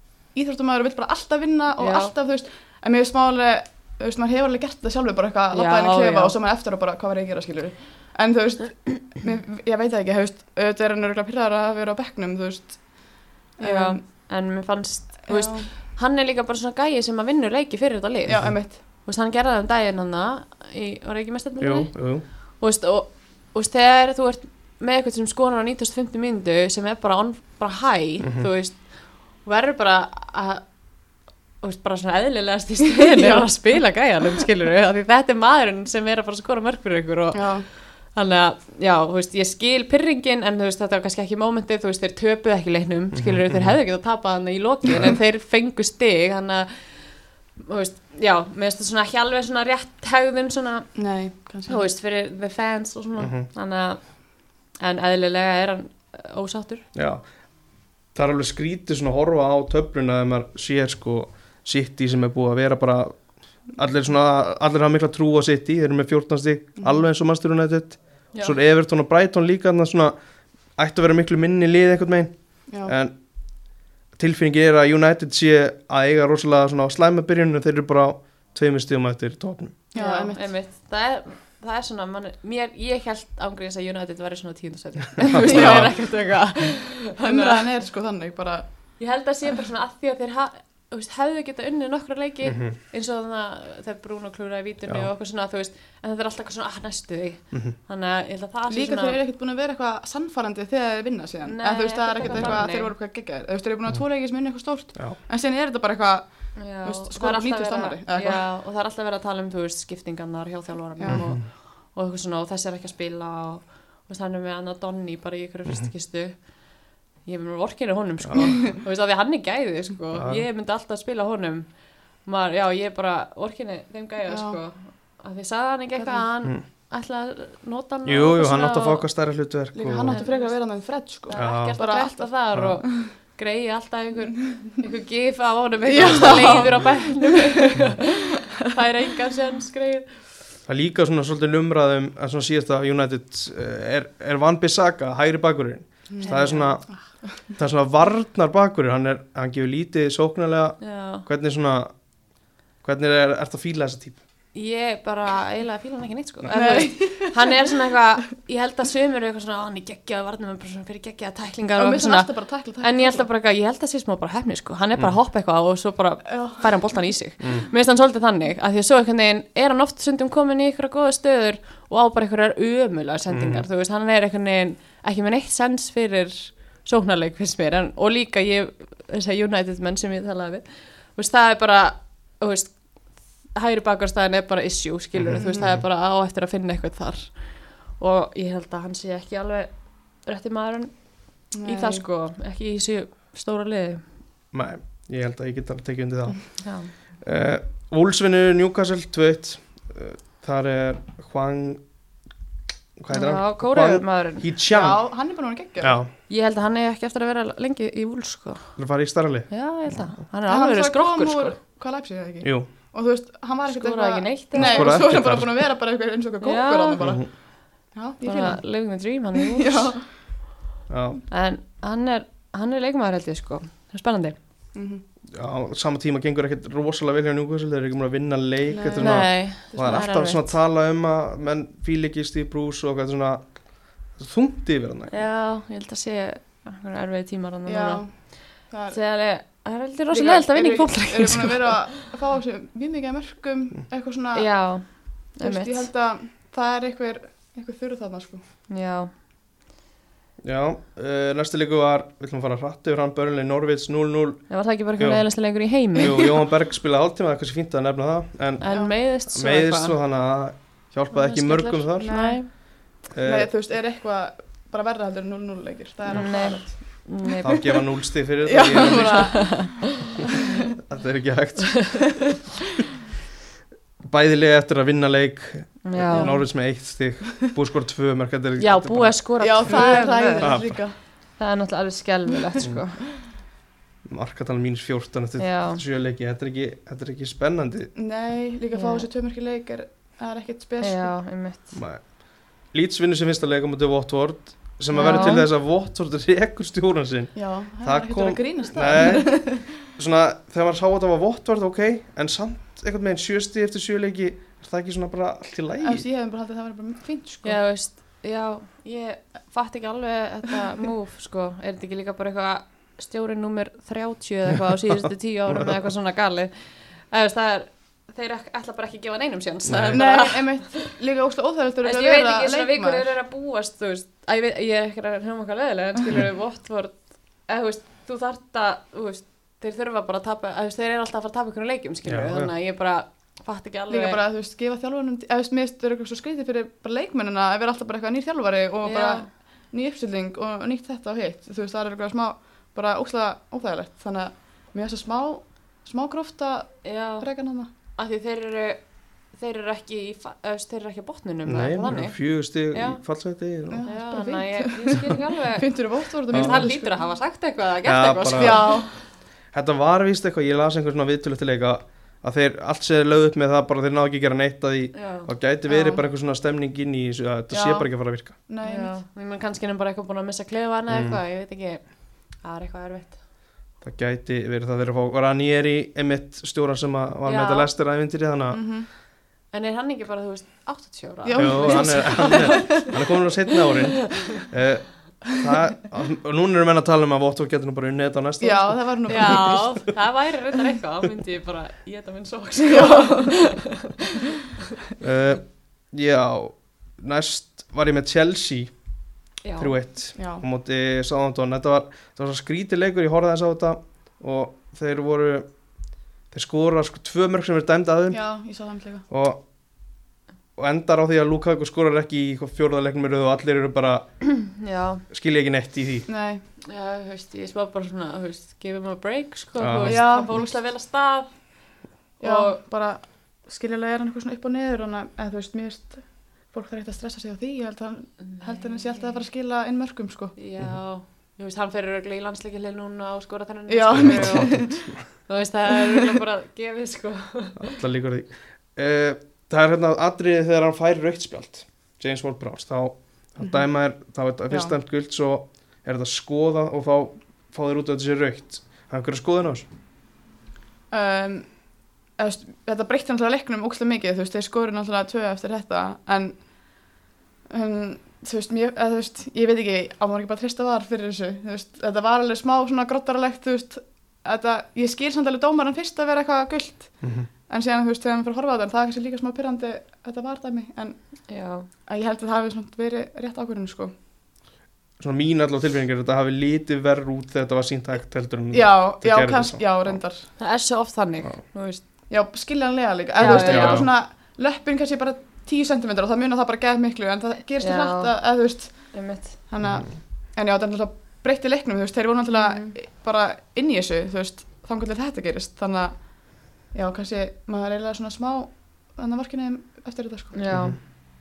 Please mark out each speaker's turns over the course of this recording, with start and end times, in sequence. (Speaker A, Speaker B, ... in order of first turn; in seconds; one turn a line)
Speaker A: 0.3-14.0
Speaker B: 1.8-2.1
Speaker B: 5.5-6.3
Speaker B: 13.6-21.9
Speaker A: 15.2-15.7
Speaker A: 18.3-18.8
Speaker C: 21.6-22.2
Speaker B: 22.6-30.6
Speaker C: 28.2-28.5
Speaker B: 31.6-50.9
Speaker A: 33.0-33.5
Speaker A: 37.3-37.6
Speaker C: 43.1-43.7
Speaker A: 51.0-51.8
Speaker B: 51.7-54.1
Speaker C: 53.2-53.5
Speaker B: 54.8-56.8
Speaker C: 56.9-57.2
Speaker C: 58.1-70.1
Speaker C: 70.8-73.2
Speaker A: 72.7-72.9
Speaker C: 74.1-79.8
Speaker A: 79.9-80.4
Speaker B: 79.9-87.6
Speaker C: 85.2-85.9
Speaker A: 85.3-86.0
Speaker A: 87.2-88.6
Speaker B: 89.0-99.2
Speaker C: 92.5-92.8
Speaker A: 98.7-108.4
Speaker B: 101.4-102.9
Speaker B: 106.5-116.5
Speaker A: 111.0-111.2
Speaker C: 111.1-111.4
Speaker B: 117.2-121.7
Speaker C: 118.2-118.5
Speaker C: 120.1-120.4
Speaker B: 122.2-129.1
Speaker A: 124.3-124.6
Speaker A: 126.0-126.2
Speaker C: 128.1-130.2
Speaker A: 129.7-132.3
Speaker B: 130.1-130.5
Speaker B: 131.3-140.1
Speaker C: 131.3-131.8
Speaker A: 135.9-137.8
Speaker C: 140.7-146.9
Speaker A: 146.1-146.9
Speaker B: 146.2-146.7
Speaker C: 147.5-151.9
Speaker B: 150.8-151.2
Speaker C: 152.8-154.2
Speaker B: 154.5-182.8
Speaker A: 156.5-157.5
Speaker A: 161.8-163.2
Speaker A: 166.3-166.7
Speaker C: 167.4-167.7
Speaker C: 173.3-173.6
Speaker B: 183.5-194.0
Speaker C: 185.2-185.8
Speaker A: 185.3-185.7
Speaker A: 191.5-192.0
Speaker C: 194.5-196.6
Speaker B: 196.6-196.9
Speaker C: 197.2-201.8
Speaker C: 203.0-205.0
Speaker B: 203.1-204.5
Speaker A: 204.7-206.0
Speaker C: 205.8-206.1
Speaker B: 206.3-208.7
Speaker C: 208.8-209.5
Speaker B: 209.5-211.6
Speaker A: 210.5-217.3
Speaker C: 212.4-212.7
Speaker B: 213.7-215.0
Speaker C: 214.5-215.5
Speaker B: 216.4-217.0
Speaker C: 217.0-217.3
Speaker A: 217.9-218.6
Speaker B: 218.2-219.9
Speaker A: 219.3-220.0
Speaker C: 220.9-221.2
Speaker B: 221.3-224.3
Speaker A: 224.7-225.0
Speaker C: 225.3-233.5
Speaker A: 228.7-230.1
Speaker B: 229.0-230.5
Speaker C: 234.1-235.1
Speaker B: 235.1-242.0
Speaker A: 237.7-239.0
Speaker A: 240.1-244.9
Speaker B: 244.3-245.9
Speaker A: 245.4-248.4
Speaker B: 248.7-249.1
Speaker C: 250.4-255.2
Speaker B: 254.5-256.3
Speaker C: 255.9-262.1
Speaker B: 258.6-259.9
Speaker B: 261.1-262.5
Speaker A: 262.0-267.1
Speaker C: 263.1-263.5
Speaker B: 266.1-267.6
Speaker C: 267.4-269.6
Speaker A: 268.4-270.1
Speaker B: 268.8-269.8
Speaker C: 270.7-272.1
Speaker B: 271.7-272.0
Speaker C: 274.0-279.2
Speaker B: 275.8-276.4
Speaker A: 276.1-276.4
Speaker B: 278.6-280.6
Speaker A: 279.4-280.9
Speaker C: 280.4-280.8
Speaker B: 281.4-283.0
Speaker C: 284.1-287.9
Speaker B: 285.4-285.8
Speaker A: 287.9-291.1
Speaker B: 288.7-289.1
Speaker B: 290.8-291.8
Speaker C: 291.7-306.1
Speaker B: 294.9-295.4
Speaker A: 295.0-295.4
Speaker A: 297.3-299.7
Speaker A: 305.8-307.6
Speaker B: 307.4-320.9
Speaker C: 319.6-320.0
Speaker A: 319.9-323.1
Speaker B: 321.8-334.2
Speaker C: 332.0-332.5
Speaker A: 333.9-347.7
Speaker B: 338.8-339.3
Speaker B: 346.8-347.2
Speaker B: 347.9-348.8
Speaker B: 349.3-352.2
Speaker C: 351.4-353.9
Speaker B: 352.7-353.0
Speaker A: 353.7-356.9
Speaker B: 353.9-355.8
Speaker B: 356.3-358.9
Speaker C: 356.3-356.6
Speaker C: 357.8-358.8
Speaker A: 358.4-358.9
Speaker C: 359.5-368.3
Speaker B: 364.9-365.3
Speaker A: 365.7-366.0
Speaker A: 367.5-368.9
Speaker B: 368.6-373.2
Speaker C: 370.9-371.2
Speaker C: 373.8-378.6
Speaker B: 377.2-377.7
Speaker A: 378.5-378.9
Speaker B: 379.5-382.9
Speaker A: 381.2-382.9
Speaker C: 381.4-389.4
Speaker A: 388.4-389.9
Speaker B: 389.1-393.9
Speaker A: 392.6-393.4
Speaker C: 395.0-398.7
Speaker B: 399.4-399.8
Speaker C: 399.6-405.5
Speaker A: 400.1-400.4
Speaker C: 406.3-408.2
Speaker A: 408.1-409.0
Speaker C: 409.1-409.4
Speaker C: 410.6-414.1
Speaker B: 414.4-415.0
Speaker C: 415.1-416.1
Speaker A: 416.1-416.4
Speaker B: 416.6-421.3
Speaker C: 419.6-420.1
Speaker A: 419.8-420.5
Speaker A: 422.2-430.3
Speaker B: 422.2-422.6
Speaker B: 428.3-429.2
Speaker B: 430.4-434.7
Speaker A: 433.7-434.9
Speaker C: 433.9-435.0
Speaker B: 435.2-437.7
Speaker C: 437.6-449.6
Speaker A: 450.9-451.5
Speaker A: 452.2-456.4
Speaker A: 457.5-471.0
Speaker C: 467.0-467.3
Speaker B: 471.3-471.7
Speaker A: 471.9-473.9
Speaker C: 475.0-480.0
Speaker A: 478.5-480.3
Speaker B: 480.4-481.8
Speaker A: 482.1-500.5
Speaker B: 483.2-483.9
Speaker C: 483.2-483.9
Speaker B: 487.6-488.1
Speaker B: 488.9-489.3
Speaker B: 492.3-492.7
Speaker B: 500.3-501.0
Speaker C: 500.5-500.8